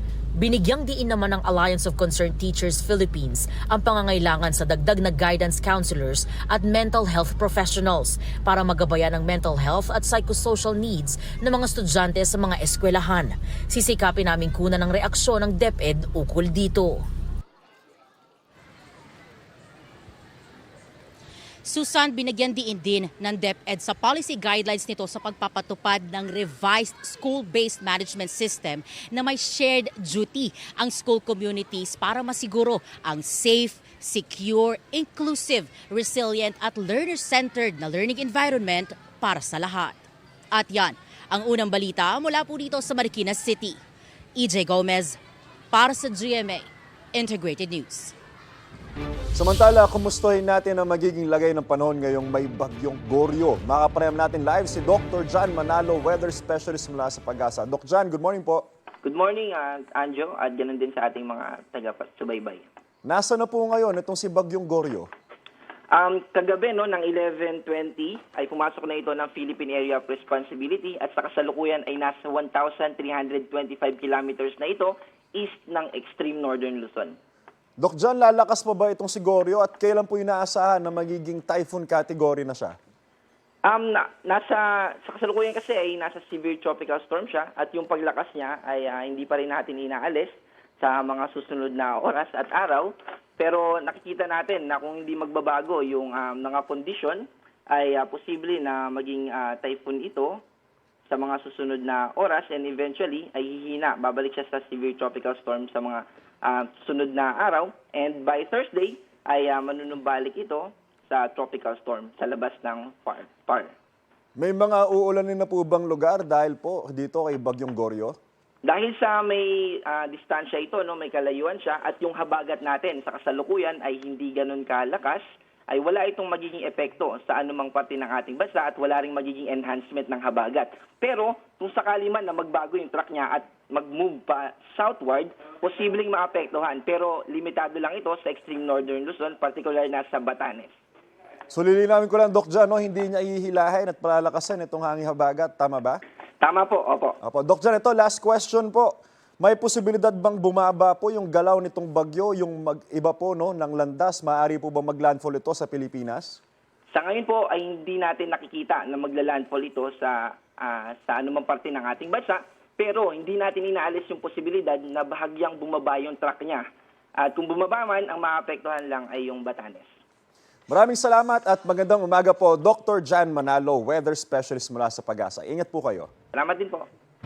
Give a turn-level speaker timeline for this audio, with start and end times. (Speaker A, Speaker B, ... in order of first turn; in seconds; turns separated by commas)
Speaker A: 0.4-17.0, Speaker A: 21.7-40.0, Speaker A: 40.5-43.8, Speaker A: 44.4-45.2, Speaker A: 45.7-48.1, Speaker B: 49.3-58.6, Speaker C: 59.0-62.6, Speaker B: 63.0-65.1, Speaker C: 65.9-77.2, Speaker B: 77.8-82.7, Speaker C: 83.6-100.4, Speaker C: 101.1-113.7, Speaker B: 114.4-118.2, Speaker C: 118.6-140.7, Speaker B: 141.5-146.0, Speaker C: 146.4-147.2, Speaker B: 147.2-156.4, Speaker C: 156.9-166.6, Speaker C: 167.2-169.9, Speaker B: 170.7-176.1, Speaker C: 176.3-176.8